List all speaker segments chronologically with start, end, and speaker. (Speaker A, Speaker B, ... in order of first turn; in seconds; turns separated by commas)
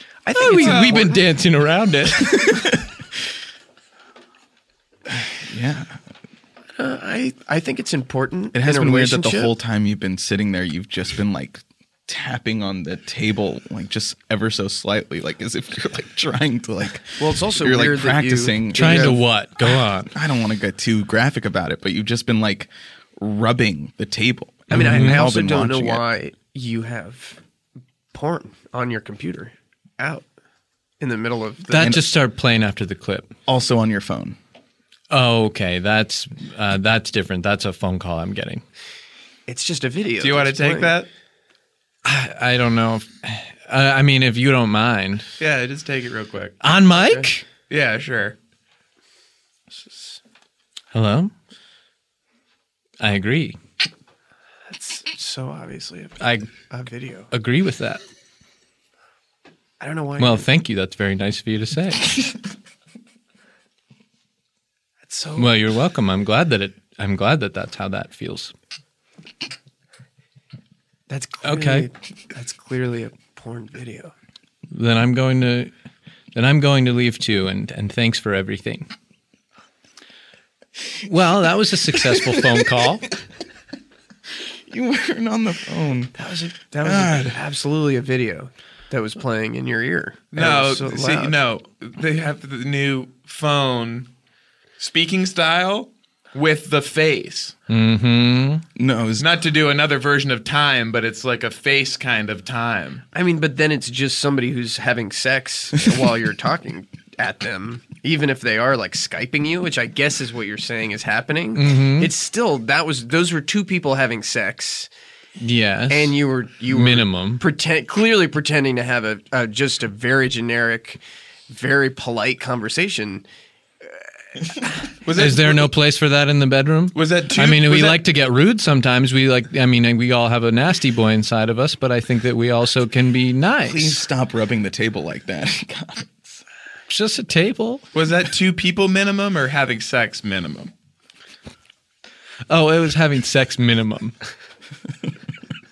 Speaker A: 0.2-1.2, Speaker B: 0.3-2.7, Speaker C: 0.5-1.0, Speaker D: 2.3-2.7, Speaker D: 5.1-6.0, Speaker A: 6.8-9.5, Speaker D: 8.5-26.0, Speaker A: 17.2-19.2, Speaker B: 18.7-20.1, Speaker A: 24.7-27.4, Speaker B: 24.7-25.2, Speaker A: 28.1-30.3, Speaker A: 31.0-32.0, Speaker B: 31.7-33.3, Speaker D: 31.8-32.0, Speaker D: 33.5-34.4, Speaker B: 35.1-38.6, Speaker A: 39.5-40.9, Speaker C: 40.2-41.1, Speaker B: 42.0-45.2, Speaker C: 45.4-46.6, Speaker B: 46.6-47.4, Speaker A: 46.9-47.3, Speaker C: 47.7-48.4, Speaker B: 50.9-51.3, Speaker B: 53.0-53.6, Speaker A: 54.7-57.3, Speaker B: 56.2-56.5, Speaker B: 57.3-58.0, Speaker A: 59.8-60.5, Speaker B: 60.2-62.4, Speaker A: 65.0-65.5, Speaker B: 65.3-68.5, Speaker A: 71.1-74.1, Speaker B: 71.4-71.9, Speaker B: 74.7-75.7, Speaker B: 76.3-78.9, Speaker B: 81.0-83.0, Speaker D: 84.7-86.2, Speaker A: 86.2-91.3, Speaker D: 86.8-87.4, Speaker C: 90.3-94.1, Speaker C: 94.8-97.5, Speaker B: 97.7-98.6, Speaker D: 98.8-99.3, Speaker C: 99.2-103.0, Speaker A: 103.1-114.9, Speaker B: 111.5-112.1, Speaker B: 115.4-116.2, Speaker A: 115.9-123.2, Speaker B: 116.7-117.4, Speaker C: 125.0-125.7, Speaker B: 125.1-134.0, Speaker C: 126.9-128.0, Speaker D: 133.6-136.4, Speaker B: 136.9-137.8, Speaker C: 137.9-140.7, Speaker B: 142.5-144.1